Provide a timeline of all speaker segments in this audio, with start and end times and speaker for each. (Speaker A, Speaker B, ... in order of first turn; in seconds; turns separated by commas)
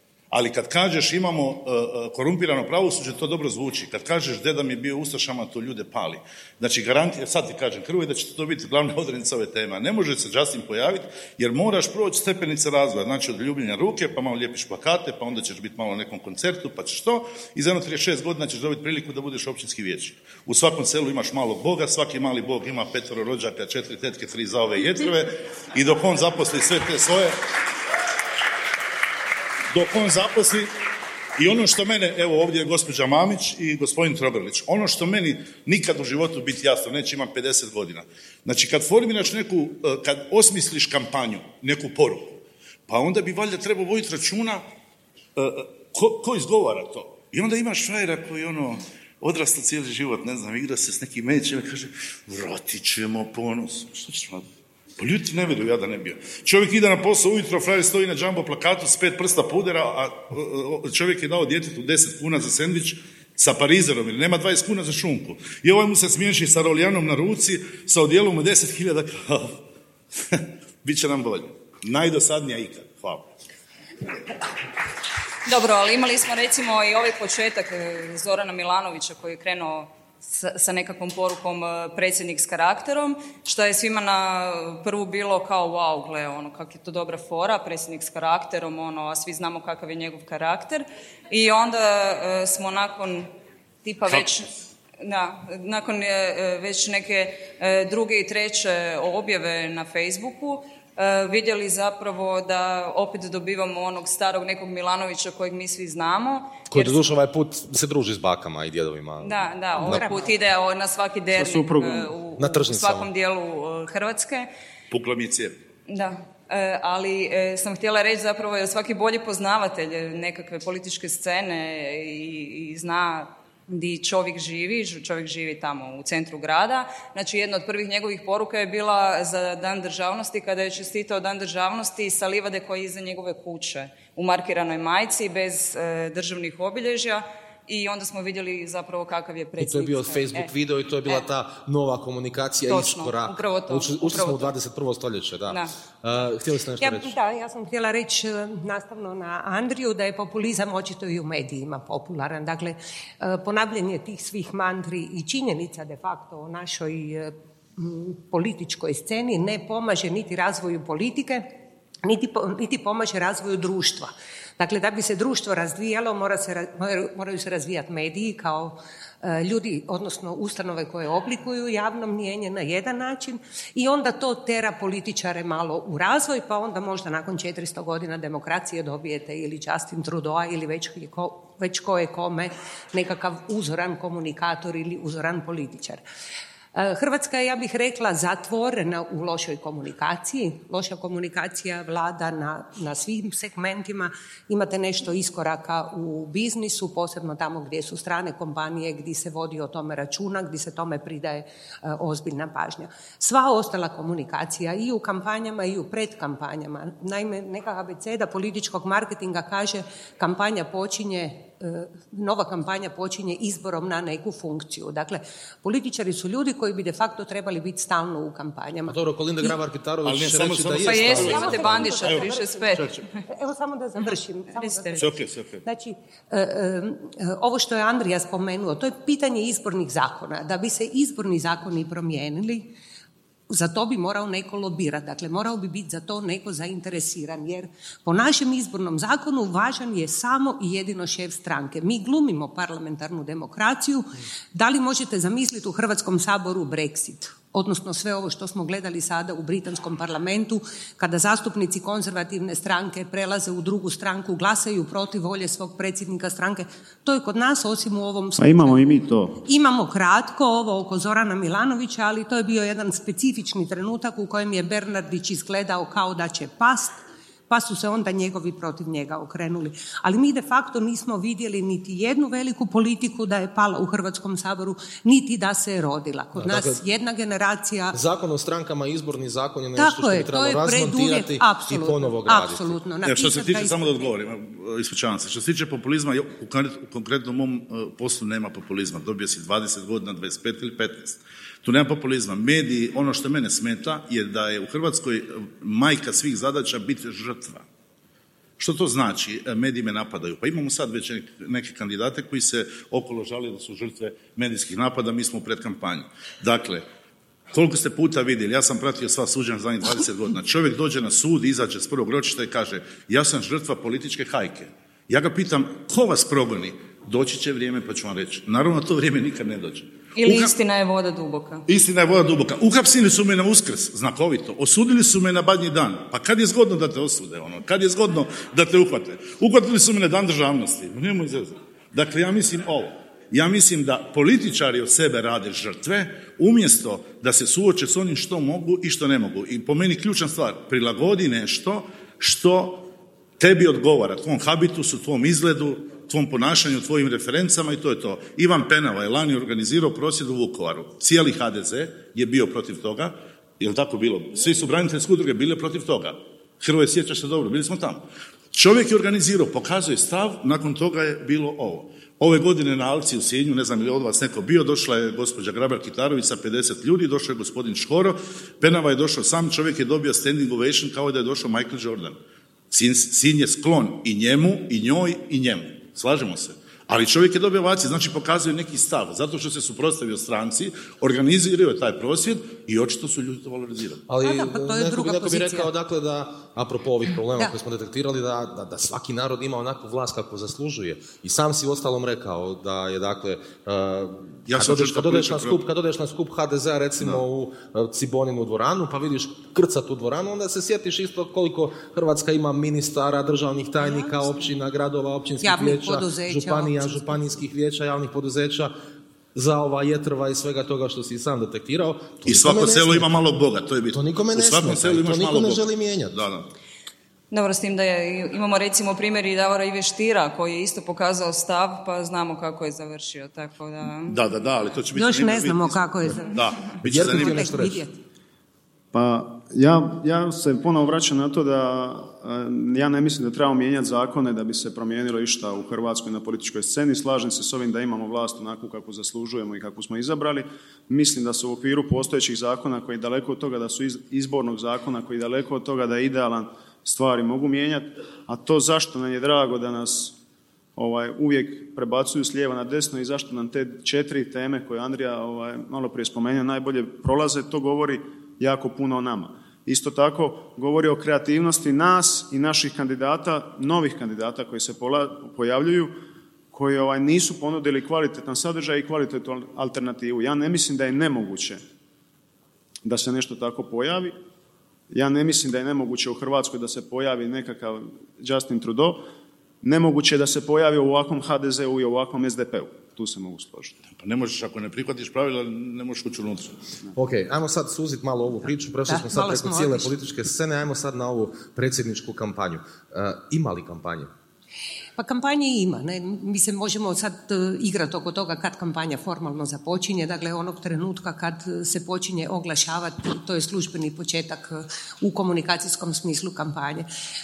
Speaker A: 0.3-27.3, Speaker A: 29.7-30.7, Speaker A: 31.4-44.6, Speaker A: 45.4-54.5, Speaker A: 55.0-69.6, Speaker A: 70.3-73.2, Speaker B: 75.5-93.3, Speaker B: 93.8-94.5, Speaker B: 95.0-107.1, Speaker C: 106.7-110.1, Speaker B: 109.2-114.5, Speaker D: 109.8-110.3, Speaker E: 111.3-112.1, Speaker C: 112.4-113.1, Speaker A: 114.9-115.5, Speaker B: 115.9-140.5, Speaker C: 139.6-147.1, Speaker B: 142.7-144.5, Speaker D: 146.8-161.5, Speaker D: 162.0-186.0, Speaker D: 186.7-219.0, Speaker C: 218.9-221.5, Speaker A: 220.0-223.0, Speaker B: 220.8-223.0, Speaker D: 221.1-222.7, Speaker D: 223.2-225.1, Speaker B: 224.6-225.1, Speaker A: 225.0-225.6, Speaker D: 225.6-232.7, Speaker D: 233.5-258.9, Speaker E: 258.4-259.4, Speaker D: 259.4-266.9, Speaker D: 267.5-278.0, Speaker C: 276.4-276.8, Speaker C: 277.9-282.8, Speaker D: 279.8-284.1, Speaker A: 283.0-297.6, Speaker A: 298.6-306.8, Speaker A: 307.5-320.6, Speaker B: 320.1-321.6, Speaker A: 321.7-342.9, Speaker A: 343.4-372.2, Speaker A: 372.7-384.0, Speaker C: 384.1-408.7, Speaker D: 384.2-385.7, Speaker A: 394.5-395.6, Speaker D: 403.8-404.1, Speaker D: 405.4-407.2, Speaker C: 409.3-413.2, Speaker A: 412.2-416.5, Speaker C: 413.9-416.2, Speaker B: 417.3-424.2, Speaker A: 424.1-427.4, Speaker D: 424.9-426.3, Speaker C: 426.8-427.8, Speaker D: 427.0-428.0, Speaker E: 428.9-450.1, Speaker E: 450.8-465.9, Speaker E: 466.5-471.6, Speaker E: 472.8-474.1, Speaker E: 474.9-479.0, Speaker E: 479.6-483.8, Speaker A: 483.9-486.6, Speaker C: 486.9-494.1, Speaker D: 488.9-489.9, Speaker D: 495.0-506.9